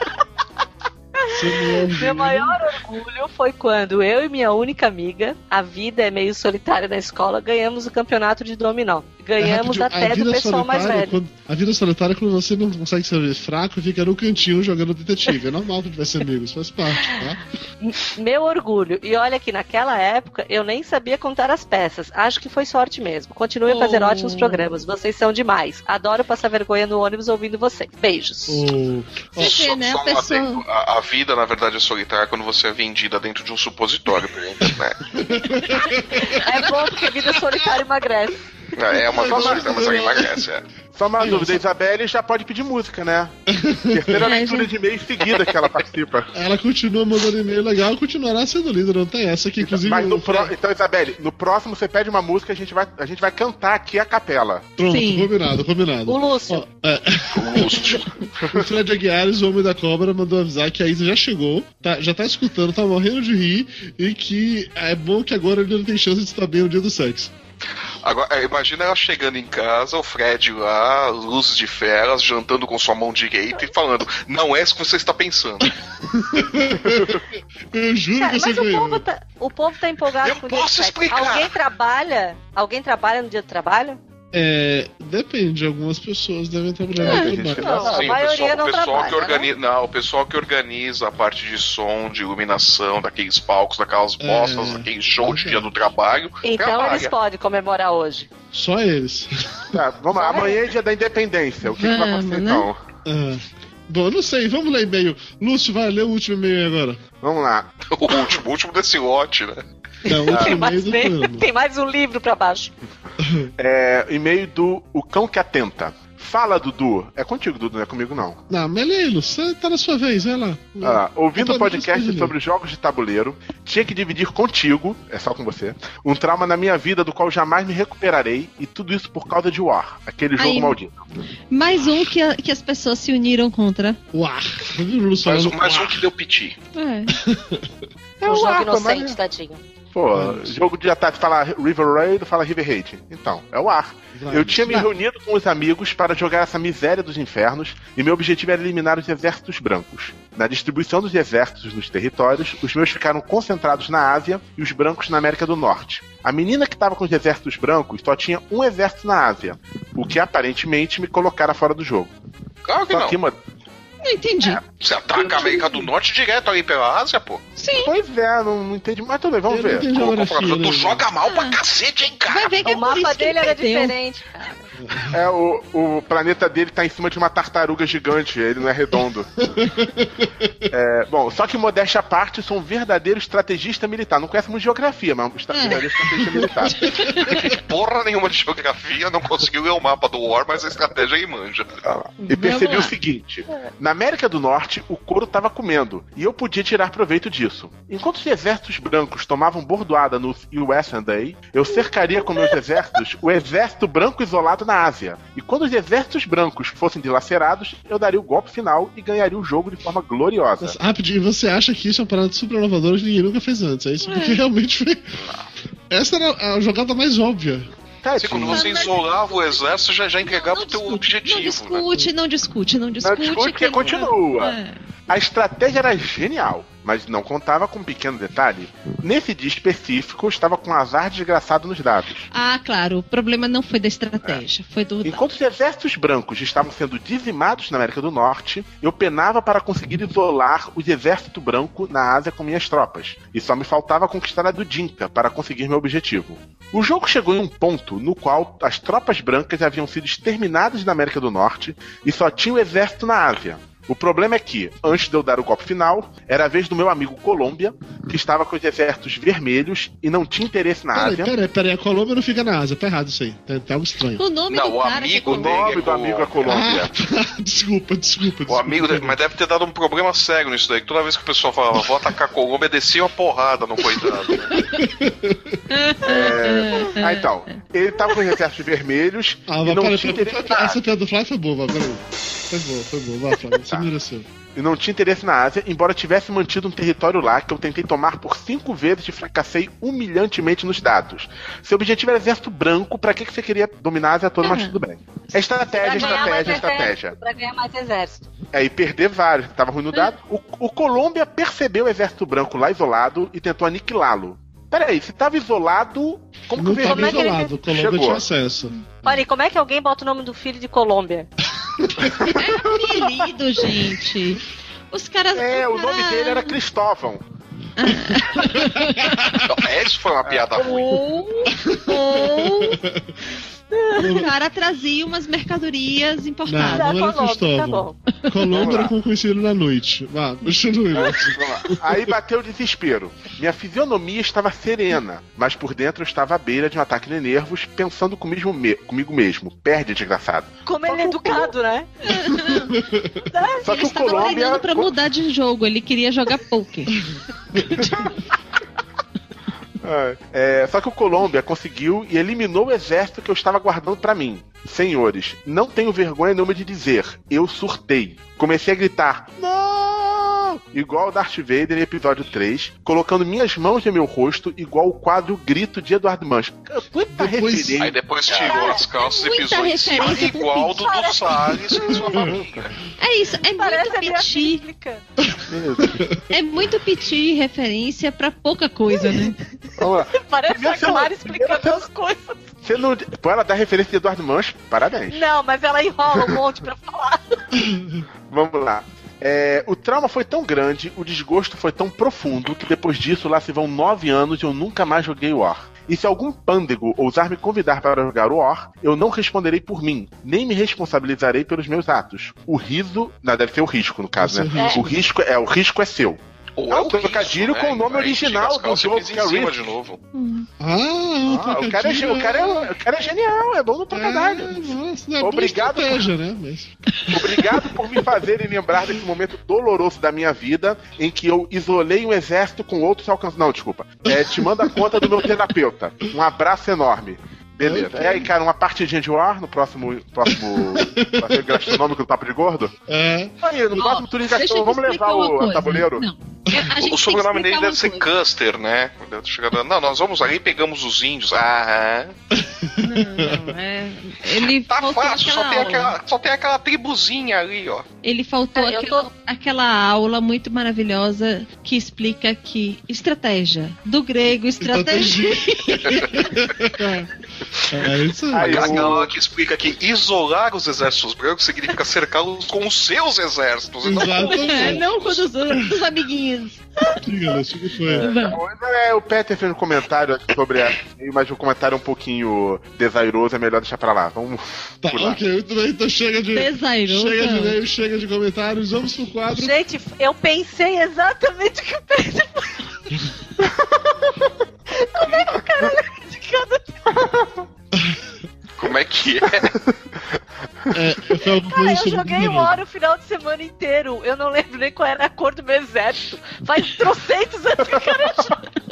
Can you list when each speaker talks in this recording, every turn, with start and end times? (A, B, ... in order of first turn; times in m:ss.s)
0:01.3-0:02.6 A
0:01.9-0:11.2 B
0:09.4-0:17.4 A
0:17.8-0:28.7 B
0:23.6-0:24.7 C
0:28.5-0:29.6 A
0:29.4-0:30.6 C
0:29.4-0:35.0 D
0:35.1-0:36.7 A
0:36.2-0:38.4 B
0:38.7-0:40.6 D
0:39.0-0:40.4 A
0:39.3-0:40.1 E
0:40.9-0:43.3 E
0:41.2-0:41.6 A
0:43.5-0:44.2 A
0:43.9-0:46.3 E
0:44.2-0:44.7 C
0:46.3-0:50.5 A
0:49.6-0:54.7 E
0:54.8-1:07.3 A
0:54.9-0:55.3 C
0:56.1-0:56.6 B
0:57.3-0:58.1 D
1:08.0-1:15.7 D
1:16.1-1:19.0 A
1:16.9-1:17.2 E
1:18.2-1:24.0 B
1:20.2-1:21.5 D
1:24.3-1:27.9 A
1:27.0-1:28.2 E
1:27.0-1:27.3 C
1:27.6-1:29.5 B
1:27.8-1:37.1 D
1:34.2-1:35.7 A
1:36.4-1:38.3 B
1:38.5-1:39.7 A
1:39.7-1:42.8 E
1:40.1-1:40.6 B
1:41.6-1:42.7 C
1:43.0-1:47.0 A
1:47.2-1:47.7 E
1:47.9-1:49.6 D
1:50.0-1:51.5 A
1:50.1-1:52.7 B
1:53.2-1:53.5 A
1:53.6-1:58.4 E
1:58.5-2:02.3 A
2:00.8-2:10.9 E
2:10.4-2:10.8 C
2:11.5-2:14.0 C
2:14.1-2:16.0 A
2:15.2-2:16.6 D
2:16.7-2:17.2 C
2:17.2-2:17.7 A
2:18.2-2:19.2 E
2:18.2-2:19.6 B
2:19.9-2:42.1 E
2:20.1-2:20.5 A
2:24.1-2:24.9 A
2:42.6-2:43.2 D
2:42.9-2:43.4 E
2:44.0-2:44.6 C
2:44.8-2:47.4 D
2:45.3-2:45.6 C
2:47.6-2:47.9 C
2:47.8-2:49.9 E
2:49.5-2:51.0 A
2:49.9-2:52.6 D
2:51.2-2:51.6 C
2:52.3-2:53.9 C
2:52.6-2:54.6 B
2:54.8-2:55.1 A
2:55.1-2:59.3 E
2:59.6-3:00.5 A
3:00.7-3:06.8 E
3:05.5-3:05.8 C
3:06.8-3:07.4 C
3:07.2-3:11.8 D
3:11.8-3:30.8 E
3:12.2-3:12.9 C
3:30.6-3:35.1 A
3:34.0-3:34.4 C
3:35.9-3:37.7 A
3:38.0-3:38.7 E
3:38.2-3:41.8 D
3:38.4-3:39.6 C
3:40.2-3:44.8 C
3:43.0-3:44.6 E
3:45.1-3:52.3 E
3:52.3-3:55.2 C
3:55.0-4:21.3 E
4:20.9-4:24.2 A
4:24.2-4:25.5 C
4:24.5-4:26.5 D
4:25.3-4:26.9 E
4:26.4-4:29.2 A
4:28.5-4:34.6 D
4:34.5-4:34.8 C
4:34.7-4:35.6 A
4:35.7-4:37.2 C
4:36.0-4:40.8 E
4:39.5-4:44.3 A
4:44.5-4:57.2 E
4:54.4-4:54.8 C
4:55.7-4:58.3 B
4:55.9-4:56.4 C
4:58.5-5:08.2 E
5:06.6-5:08.7 A
5:06.8-5:07.6 B
5:09.0-5:11.3 B
5:11.8-5:12.1 A
5:12.1-5:12.7 E
5:12.3-5:16.6 C
5:15.3-5:17.2 E
5:17.8-5:19.3 C
5:18.8-5:19.2 A
5:19.4-5:20.9 D
5:20.2-5:20.5 E
5:20.6-5:22.7 B
5:21.5-5:23.1 A
5:23.7-5:24.1 B
5:23.9-5:24.3 A
5:24.0-5:26.9 C
5:26.4-5:31.5 A
5:26.7-5:28.0 B
5:28.5-5:28.9 E
5:31.1-5:41.5 E
5:40.6-5:41.9 B
5:42.0-5:42.7 C
5:42.4-5:43.2 A
5:43.3-5:43.9 B
5:43.6-5:44.9 E
5:43.6-5:47.0 C
5:47.6-5:48.1 C
5:49.8-6:08.7 E
6:07.1-6:07.8 A
6:07.8-6:12.7 D
6:08.3-6:08.8 B
6:08.9-6:10.8 C
6:10.8-6:12.0 B
6:13.0-6:14.6 C
6:13.4-6:15.0 B
6:15.5-6:16.0 E
6:16.3-6:19.4 C
6:19.8-6:21.9 E
6:20.1-6:22.5 B
6:22.6-6:25.2 E
6:25.1-6:27.2 B
6:27.7-6:28.0 A
6:28.3-6:49.7 E
6:44.2-6:45.0 A
6:44.6-6:44.9 B
6:46.6-6:50.0 D
6:50.1-6:50.5 C
6:50.6-6:52.7 A
6:51.2-6:54.6 E
6:53.9-6:57.2 A
6:55.2-6:56.0 E
6:57.1-7:12.7 E
7:04.2-7:05.2 A
7:07.6-7:08.3 A
7:10.7-7:11.7 A
7:12.9-7:13.3 A
7:13.4-7:16.0 E
7:13.7-7:18.0 C
7:16.8-7:22.1 D
7:22.3-7:23.4 A
7:22.8-7:25.9 C
7:24.6-7:27.8 D
7:28.0-7:35.7 C
7:28.5-7:29.1 B
7:34.6-7:37.1 A
7:37.7-7:38.9 A
7:38.3-7:39.2 E
7:38.4-7:45.2 D
7:43.8-7:44.8 A
7:44.2-7:46.6 C
7:47.0-7:48.1 A
7:47.9-7:55.2 E
7:48.0-7:48.4 C
7:54.8-7:59.5 A
7:56.3-7:57.6 C
7:59.3-8:02.7 B
8:04.7-8:06.8 B
8:08.6-8:09.6 D
8:10.7-8:12.6 A
8:11.5-8:18.4 B